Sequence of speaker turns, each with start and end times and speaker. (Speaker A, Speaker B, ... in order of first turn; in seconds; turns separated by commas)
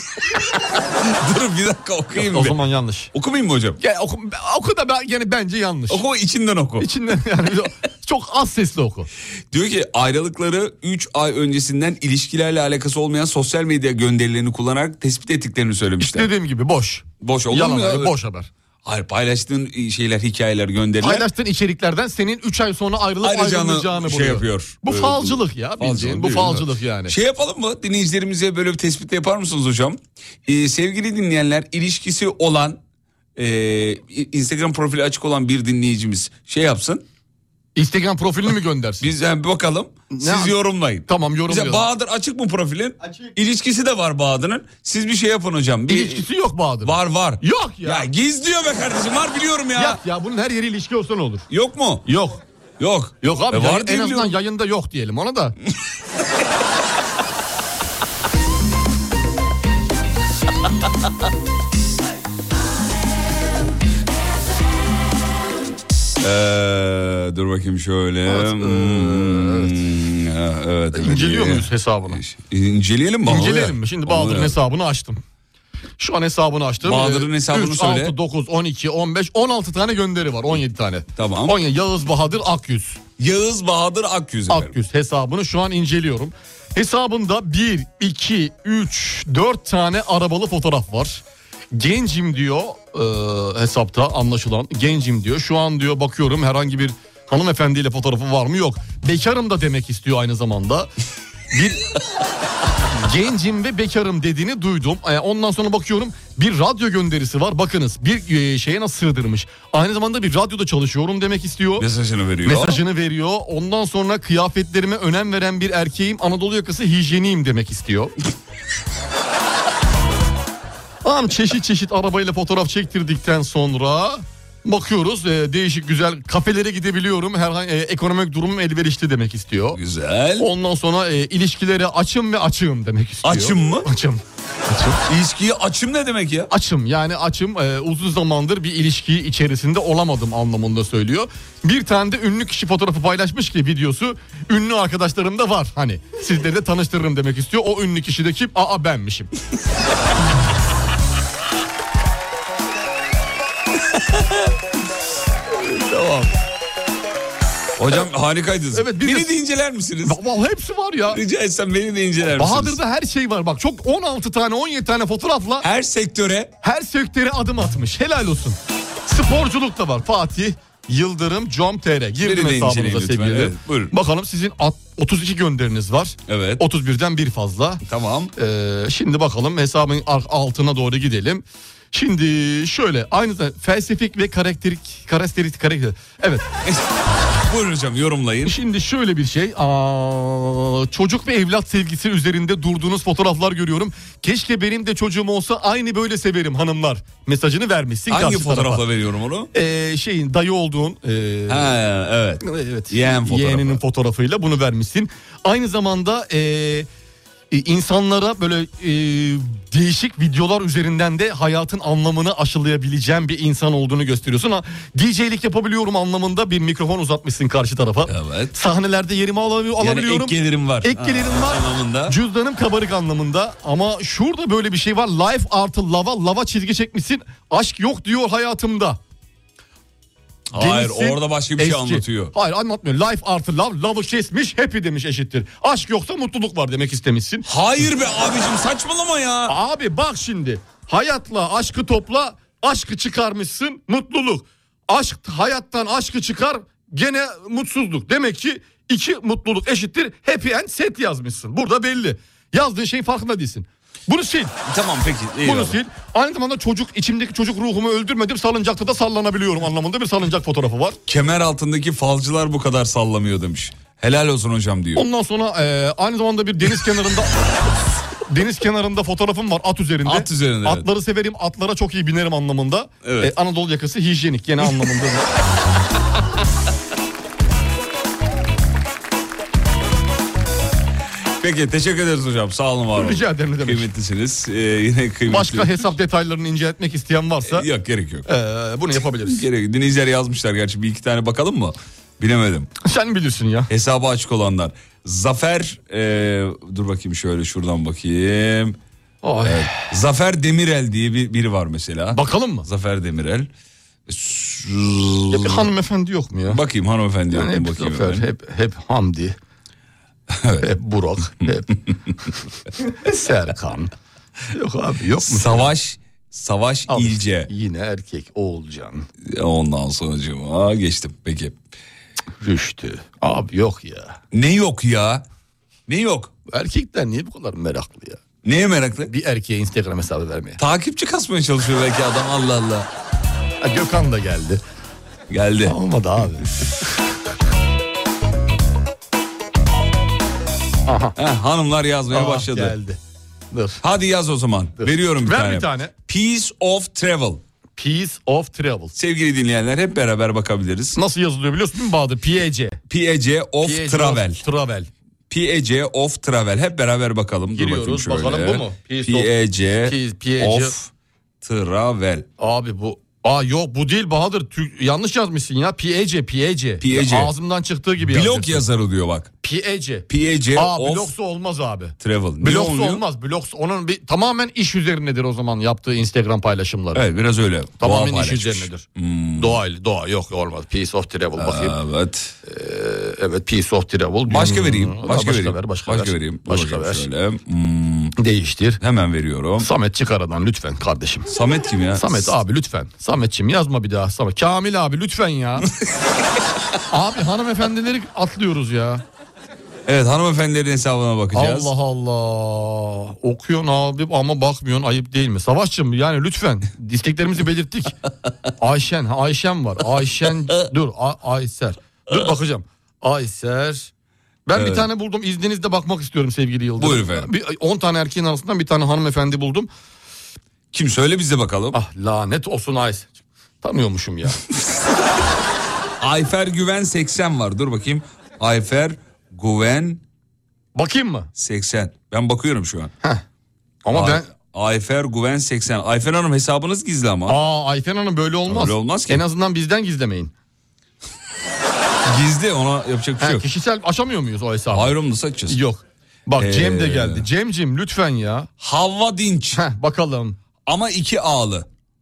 Speaker A: 0.2-2.6, Speaker B: 2.1-3.1, Speaker A: 3.1-3.8, Speaker B: 3.8-6.0, Speaker A: 5.9-6.9, Speaker B: 6.8-9.1, Speaker A: 9.5-16.3, Speaker B: 16.0-18.5, Speaker A: 17.2-18.1, Speaker A: 18.9-21.3, Speaker B: 21.0-27.1, Speaker A: 23.2-32.8, Speaker A: 33.4-37.0, Speaker B: 37.8-39.1, Speaker A: 39.0-46.3, Speaker B: 40.1-40.5, Speaker B: 41.1-41.9, Speaker B: 45.9-48.1, Speaker A: 46.8-50.0, Speaker B: 49.8-51.5, Speaker A: 51.5-52.1, Speaker B: 52.1-52.4, Speaker A: 52.8-54.4, Speaker B: 53.2-55.6, Speaker A: 66.2-74.6, Speaker B: 68.3-69.8, Speaker B: 70.9-72.2, Speaker B: 73.3-75.2, Speaker B: 76.0-83.0, Speaker A: 76.8-78.2, Speaker A: 81.2-81.6, Speaker A: 83.2-84.7, Speaker B: 84.5-100.9, Speaker B: 101.5-101.8, Speaker B: 103.0-111.9, Speaker A: 111.8-112.8, Speaker B: 112.4-118.1, Speaker B: 121.0-129.8, Speaker A: 129.7-130.5, Speaker B: 130.4-135.0, Speaker A: 133.2-133.9, Speaker A: 135.1-136.5, Speaker B: 136.5-149.3, Speaker B: 155.7-156.3, Speaker A: 157.8-160.2, Speaker B: 158.7-159.3, Speaker B: 160.0-161.2, Speaker A: 161.1-162.8, Speaker B: 162.3-165.7, Speaker A: 165.6-166.5, Speaker B: 166.6-177.8, Speaker A: 172.2-173.9, Speaker A: 176.3-176.6, Speaker A: 177.8-178.3, Speaker B: 178.4-186.4, Speaker A: 187.4-188.6, Speaker B: 188.4-198.8, Speaker A: 198.1-199.5, Speaker B: 199.5-201.8, Speaker A: 201.5-203.8, Speaker B: 202.4-206.9, Speaker B: 207.5-229.0, Speaker A: 218.1-218.6, Speaker A: 219.8-222.2, Speaker A: 230.5-232.3, Speaker B: 230.5-237.5, Speaker A: 237.5-239.6, Speaker B: 239.5-254.6, Speaker A: 254.7-255.8, Speaker B: 255.4-261.0, Speaker A: 261.1-265.1, Speaker B: 265.0-267.3, Speaker B: 268.3-275.3, Speaker A: 270.1-270.9, Speaker A: 273.0-273.3, Speaker A: 281.4-285.9, Speaker B: 282.9-283.9, Speaker B: 285.3-287.7, Speaker A: 287.4-288.3, Speaker B: 288.3-289.4, Speaker A: 289.2-292.7, Speaker B: 292.8-293.7, Speaker A: 293.7-298.8, Speaker B: 299.2-299.8, Speaker A: 299.4-303.5, Speaker B: 302.1-302.7, Speaker A: 304.1-305.7, Speaker B: 305.3-306.6, Speaker A: 306.5-308.3, Speaker B: 307.3-309.4, Speaker A: 310.3-310.7, Speaker B: 310.6-311.8, Speaker B: 312.9-313.9, Speaker B: 314.5-315.7, Speaker A: 315.2-317.5, Speaker B: 316.9-319.1, Speaker A: 319.2-321.6, Speaker B: 322.4-324.2, Speaker A: 324.3-325.2, Speaker A: 325.9-326.3, Speaker B: 326.5-328.2, Speaker A: 328.4-329.1, Speaker B: 329.1-330.6, Speaker A: 330.6-332.9, Speaker B: 333.6-334.6, Speaker A: 335.3-335.8, Speaker B: 335.6-336.5, Speaker B: 340.9-341.1, Speaker A: 341.2-342.8, Speaker B: 342.1-343.0, Speaker B: 343.5-343.8, Speaker A: 343.8-347.4, Speaker B: 344.8-345.9, Speaker B: 347.8-348.9, Speaker A: 349.0-351.0, Speaker B: 351.0-352.8, Speaker A: 352.9-354.4, Speaker B: 353.6-354.9, Speaker A: 355.3-360.9, Speaker B: 357.5-359.3, Speaker B: 359.8-360.7, Speaker A: 361.4-362.3, Speaker B: 362.4-368.6, Speaker A: 366.8-367.3, Speaker A: 368.0-369.3, Speaker B: 369.4-377.1, Speaker A: 370.1-371.1, Speaker A: 372.0-373.0, Speaker A: 376.9-379.6, Speaker B: 377.8-381.8, Speaker A: 381.4-382.4, Speaker B: 382.4-387.1, Speaker A: 384.3-388.2, Speaker B: 388.2-388.8, Speaker A: 388.8-389.7, Speaker B: 389.6-391.3, Speaker A: 391.3-392.4, Speaker B: 392.0-395.7, Speaker B: 396.9-399.0, Speaker A: 399.9-401.7, Speaker B: 401.3-407.9, Speaker B: 408.6-413.9, Speaker B: 414.5-419.7, Speaker A: 414.5-414.9, Speaker A: 416.8-417.3, Speaker A: 420.7-421.8, Speaker B: 421.7-424.4, Speaker A: 426.0-430.0, Speaker B: 430.8-431.3, Speaker A: 431.4-432.9, Speaker B: 433.9-434.3, Speaker A: 433.9-437.4, Speaker B: 437.3-440.3, Speaker A: 438.5-439.2, Speaker A: 442.1-443.4, Speaker B: 443.2-444.9, Speaker A: 444.7-445.6, Speaker B: 445.5-448.5, Speaker A: 446.4-447.3, Speaker A: 448.6-449.6, Speaker B: 449.5-450.4, Speaker A: 450.7-451.7